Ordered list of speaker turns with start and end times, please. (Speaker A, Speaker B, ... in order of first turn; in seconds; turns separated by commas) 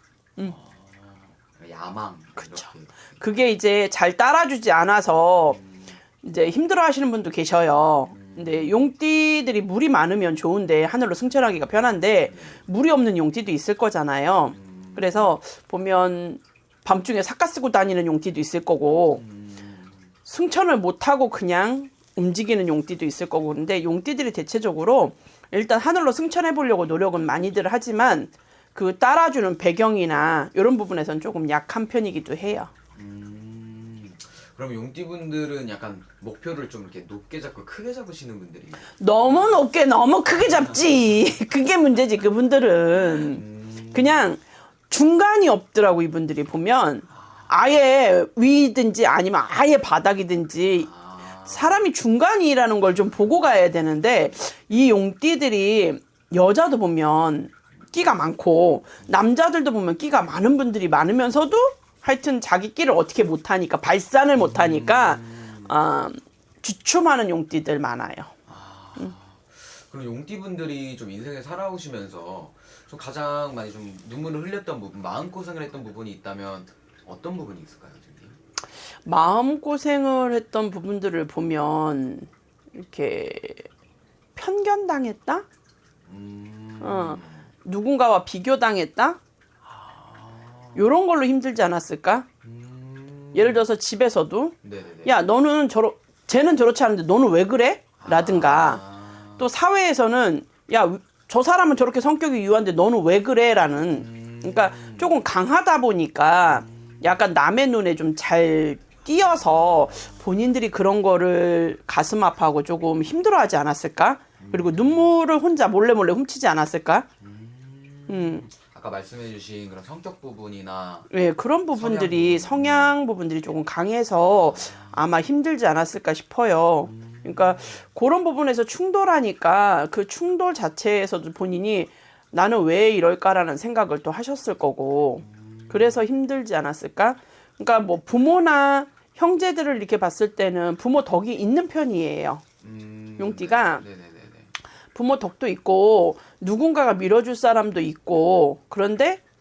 Speaker A: 0.4-3.0, Speaker B: 2.4-5.6, Speaker A: 5.5-6.0, Speaker B: 6.2-19.2, Speaker A: 8.1-8.9, Speaker A: 12.2-12.6, Speaker A: 14.4-15.3, Speaker A: 19.1-20.1, Speaker B: 20.2-32.7, Speaker A: 33.0-39.6, Speaker B: 39.0-50.9, Speaker A: 42.9-44.3, Speaker A: 47.2-47.5, Speaker A: 50.8-51.9, Speaker B: 51.5-68.3, Speaker A: 64.4-65.7, Speaker A: 68.5-78.4, Speaker B: 79.0-83.7, Speaker B: 84.4-85.5, Speaker A: 86.0-87.5, Speaker B: 86.8-89.2, Speaker A: 89.6-90.9, Speaker B: 90.7-92.3, Speaker A: 92.4-93.6, Speaker B: 93.3-98.8, Speaker A: 94.6-95.2, Speaker A: 98.0-99.5, Speaker B: 99.4-117.1, Speaker A: 103.9-105.1, Speaker A: 106.5-107.2, Speaker A: 109.2-110.3, Speaker A: 114.4-115.1, Speaker A: 117.2-121.1, Speaker B: 118.1-118.5, Speaker B: 121.1-142.4, Speaker A: 121.7-123.0, Speaker A: 124.3-125.0, Speaker A: 126.8-127.8, Speaker A: 135.2-136.0, Speaker A: 142.6-144.5, Speaker B: 143.2-143.8, Speaker B: 144.9-149.2